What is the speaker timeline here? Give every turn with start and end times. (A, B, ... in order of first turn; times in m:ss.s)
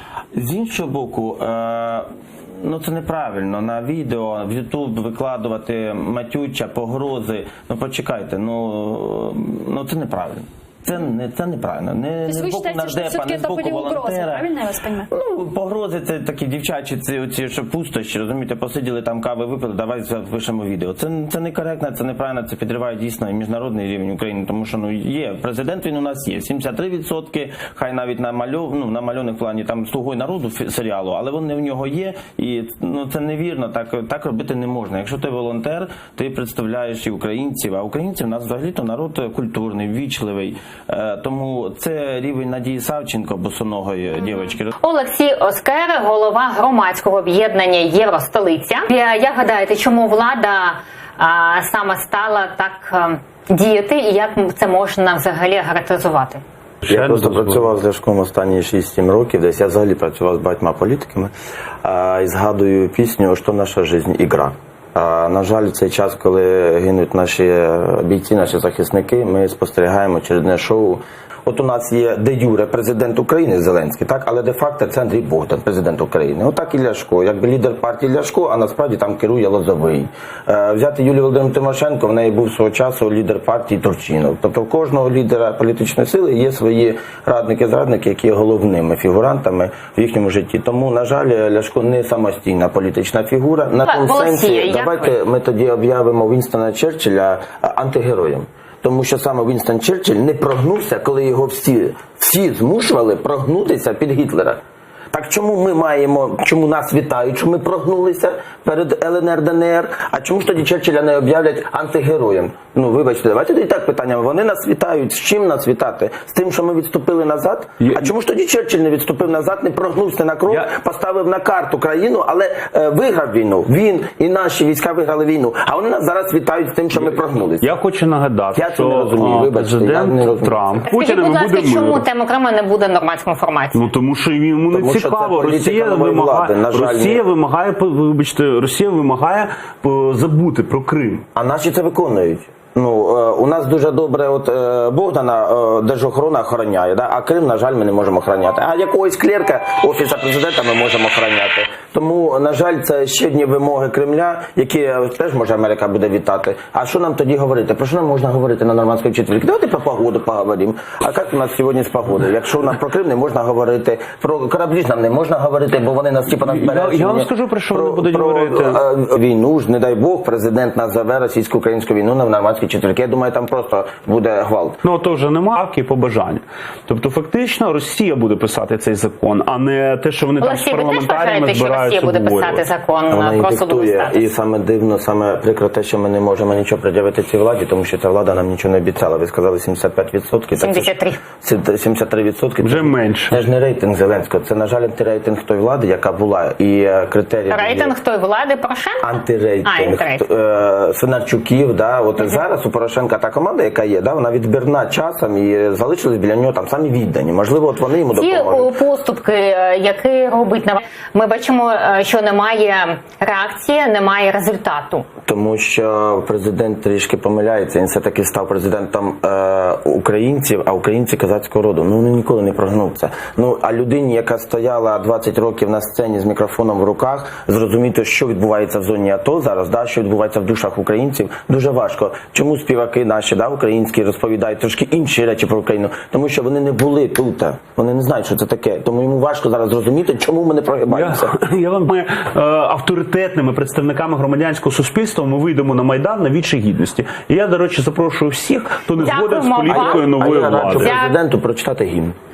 0:00.3-0:14.5 A
0:12.3-0:15.1 B
0:15.1-0:44.7 A
0:44.8-0:56.4 C
0:56.8-0:57.7 D
0:56.9-1:01.3 A
1:01.8-1:44.6 A
1:33.8-1:35.1 C
1:45.1-2:07.7 A
2:06.9-2:12.0 D
2:08.5-2:10.9 A
2:10.9-2:13.8 C
2:13.7-2:21.2 D
2:14.7-2:17.2 A
2:21.4-2:54.8 A
2:46.4-2:48.8 D
2:54.8-3:02.6 D
3:00.4-3:04.2 C
3:03.1-3:18.0 A
3:10.6-3:11.2 C
3:12.6-3:13.4 D
3:17.5-3:19.0 C
3:19.0-3:28.7 A
3:19.6-3:20.2 C
3:28.1-3:35.1 C
3:35.2-4:01.4 A
4:00.9-4:10.9 D
4:09.0-4:10.2 C
4:09.7-4:12.2 A
4:10.8-4:11.2 C